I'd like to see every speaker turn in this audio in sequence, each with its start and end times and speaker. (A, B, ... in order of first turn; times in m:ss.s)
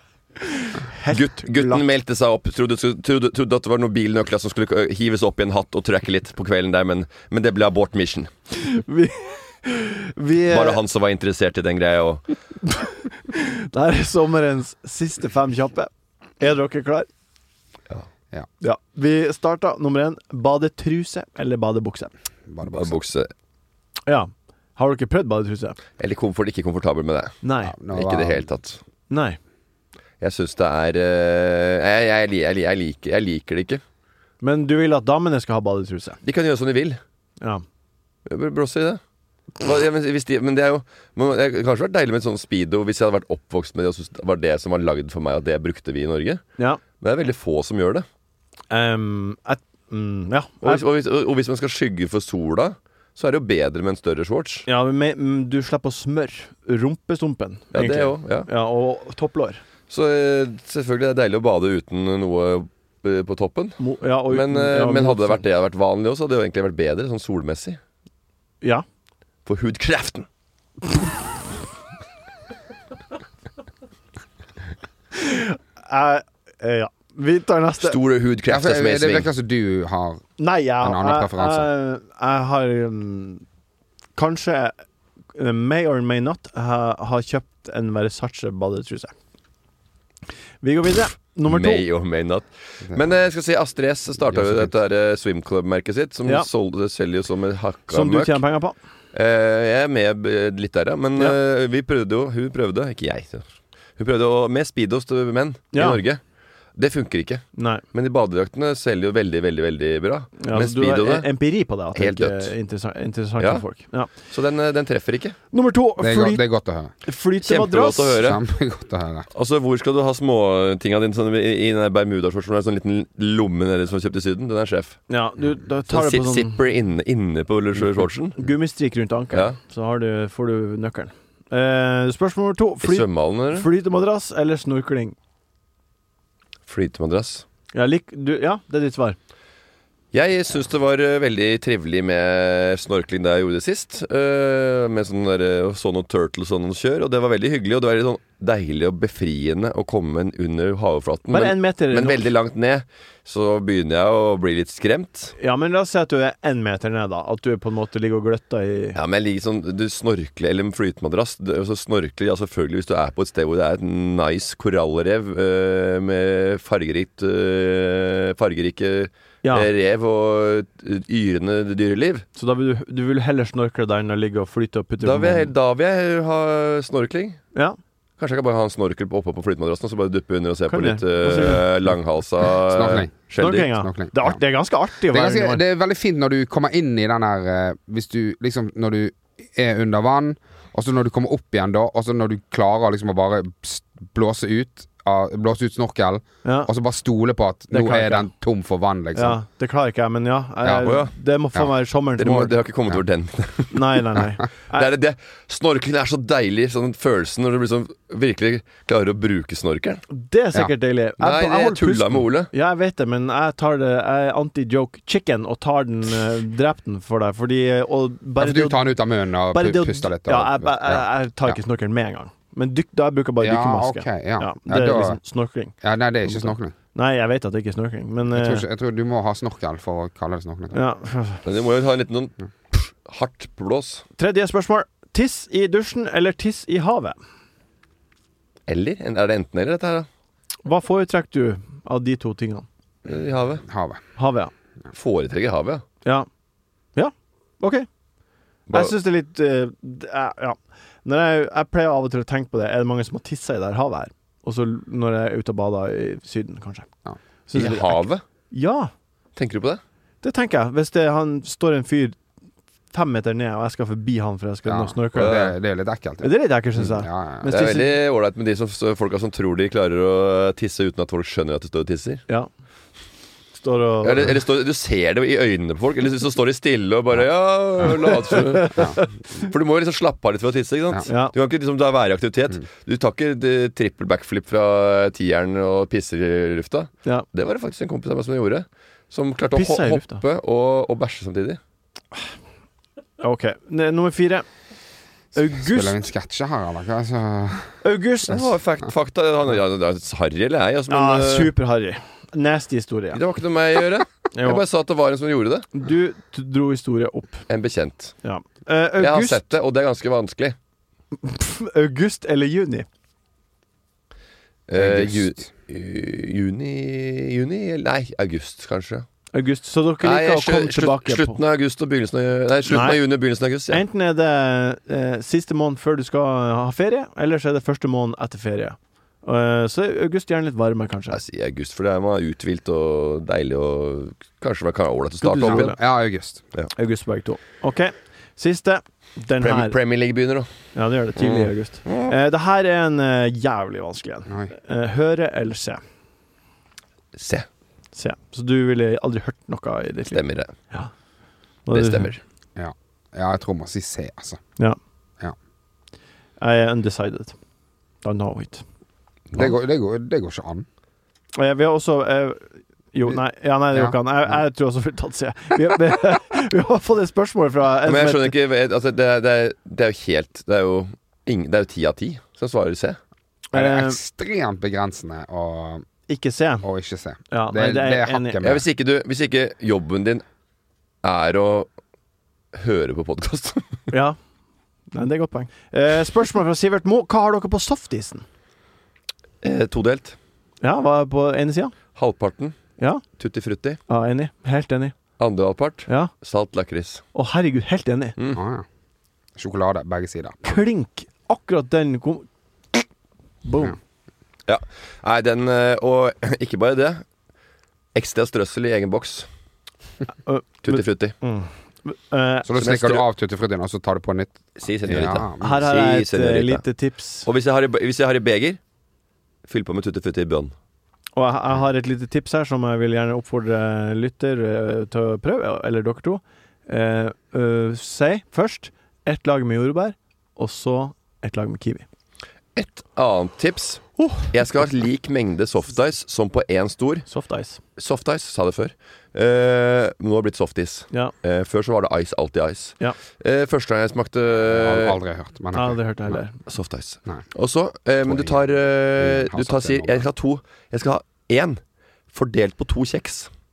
0:00.4-0:01.8 A
0:01.1-0:08.3 B
0:08.5-0:10.8 A
0:10.5-0:12.3 B
0:12.8-0:17.1 A
0:18.6-0:22.1 A
0:22.5-0:23.0 C
0:22.7-0:23.3 B
0:24.1-0:25.8 A
0:26.0-0:27.4 B
0:27.4-0:27.8 A
0:27.7-0:28.5 C
0:27.9-0:28.8 B
0:29.1-0:29.4 A
0:30.2-0:33.8 B
0:34.4-0:36.2 A
0:36.2-0:37.0 B
0:38.3-0:39.0 B
0:39.6-0:46.4 B
0:47.0-0:48.1 B
0:48.7-0:50.8 A
0:50.6-0:54.7 B
0:54.7-0:59.6 A
0:57.7-0:58.5 B
0:59.9-1:07.8 B
1:03.8-1:05.4 A
1:09.5-1:10.3 B
1:15.1-1:18.0 A
1:17.8-1:19.3 B
1:18.5-1:20.3 C
1:20.4-1:23.4 A
1:20.8-1:21.7 C
1:24.2-1:24.8 A
1:25.3-1:29.2 A
1:30.6-1:31.8 A
1:31.5-1:38.4 B
1:34.3-1:34.7 C
1:37.9-1:38.8 A
1:39.1-1:46.2 B
1:45.7-1:46.0 A
1:46.8-1:51.3 B
1:47.6-1:47.8 A
1:50.4-1:54.1 A
1:51.9-1:52.5 B
1:53.4-1:53.6 B
1:54.3-1:55.4 B
1:55.5-1:56.4 A
1:56.0-1:56.9 C
1:57.1-1:58.2 A
1:57.4-1:58.4 B
1:58.2-1:59.3 C
1:59.3-2:05.0 B
2:05.1-2:06.6 A
2:05.9-2:08.4 B
2:08.4-2:15.2 A
2:09.3-2:09.6 B
2:12.8-2:13.7 B
2:16.7-2:17.5 B
2:17.7-2:19.2 A
2:20.1-2:35.3 B
2:31.3-2:32.3 A
2:35.4-2:39.0 A
2:39.0-2:52.3 B
2:49.4-2:49.7 A
2:52.4-2:55.5 A
2:55.0-2:57.4 B
2:58.2-3:03.8 B
3:00.7-3:01.7 A
3:02.7-3:03.3 C
3:03.4-3:05.6 A
3:03.8-3:04.4 C
3:05.1-3:19.4 C
3:16.4-3:16.7 A
3:17.7-3:18.3 A
3:19.2-3:22.5 A
3:20.8-3:21.1 B
3:22.2-3:24.2 B
3:23.7-3:24.9 A
3:24.7-3:30.0 B
3:30.1-3:38.8 A
3:31.2-3:32.5 B
3:38.4-3:41.6 C
3:39.5-3:45.7 A
3:43.4-3:45.2 C
3:45.8-3:46.7 C
3:46.3-3:48.6 A
3:48.3-3:50.8 C
3:50.7-3:51.4 A
3:51.5-3:54.0 B
3:54.2-3:57.2 A
3:58.7-4:00.1 B
4:00.6-4:02.7 A
4:03.1-4:03.6 B
4:03.7-4:04.0 C
4:04.2-4:04.5 A
4:04.9-4:05.8 B
4:07.0-4:07.9 A
4:08.7-4:08.9 B
4:08.7-4:16.9 A
4:17.5-4:18.9 A
4:17.5-4:18.2 B
4:19.4-4:19.8 B
4:20.2-4:22.2 A
4:22.9-4:25.5 A
4:24.7-4:27.5 C
4:25.2-4:25.5 B
4:26.2-4:27.9 A
4:27.5-4:32.2 B
4:33.6-4:34.3 A
4:34.0-4:51.6 B
4:38.3-4:39.0 A
4:41.1-4:41.4 A
4:49.5-4:50.2 A
4:53.2-4:54.5 A
4:55.4-4:56.0 A
4:55.6-4:57.8 C
4:57.8-4:58.4 A
4:58.3-5:01.5 B
5:00.9-5:03.2 A
5:03.1-5:05.7 B
5:04.4-5:04.6 A
5:05.7-5:07.4 A
5:07.5-5:08.2 B
5:08.2-5:09.4 A
5:09.0-5:10.6 B
5:11.2-5:12.9 A
5:14.7-5:19.1 B
5:14.8-5:15.4 C
5:19.3-5:21.4 A
5:20.0-5:23.8 B
5:22.7-5:23.0 A
5:23.7-5:31.2 A
5:31.1-5:35.8 B
5:35.2-5:35.8 A
5:35.5-5:36.4 C
5:36.8-5:39.8 A
5:39.4-5:40.5 B
5:40.8-5:45.8 A
5:41.2-5:42.1 B
5:47.2-5:47.5 B
5:48.0-5:50.2 A
5:50.1-5:50.6 B
5:51.7-5:52.2 A
5:51.7-5:52.2 B
5:52.6-5:54.4 C
5:56.4-5:57.4 A
5:58.0-5:58.6 A
5:59.3-6:00.7 C
6:01.4-6:08.3 A
6:07.8-6:13.0 B
6:13.5-6:14.0 A
6:13.5-6:15.9 C
6:16.1-6:16.7 A
6:16.6-6:18.6 C
6:17.3-6:18.4 A
6:18.4-6:20.2 B
6:21.0-6:21.7 B
6:22.5-6:23.8 B
6:23.9-6:24.2 A
6:24.9-6:28.2 A
6:29.4-6:30.2 B
6:30.6-6:31.7 A
6:32.0-6:33.8 B
6:33.9-6:35.0 A
6:35.2-6:37.0 B
6:35.9-6:36.1 A
6:37.1-6:38.2 A
6:38.3-6:38.6 C
6:39.4-6:40.6 C
6:40.4-6:42.8 A
6:43.4-6:43.8 A
6:44.5-6:47.0 B
6:48.0-6:49.3 B
6:50.3-6:52.5 A
6:50.6-6:51.2 B
6:52.5-6:55.6 C
6:52.6-6:53.0 B
6:54.6-6:56.6 B
6:55.4-6:57.3 A
6:57.2-6:58.6 B
6:59.5-7:00.5 B
7:01.2-7:11.9 A
7:12.6-7:17.1 B
7:14.0-7:14.3 A
7:17.1-7:17.6 A
7:17.8-7:25.0 B
7:24.4-7:25.8 C
7:25.5-7:26.4 A
7:26.5-7:31.6 B
7:28.0-7:28.4 C
7:29.0-7:30.1 C
7:32.1-7:33.3 B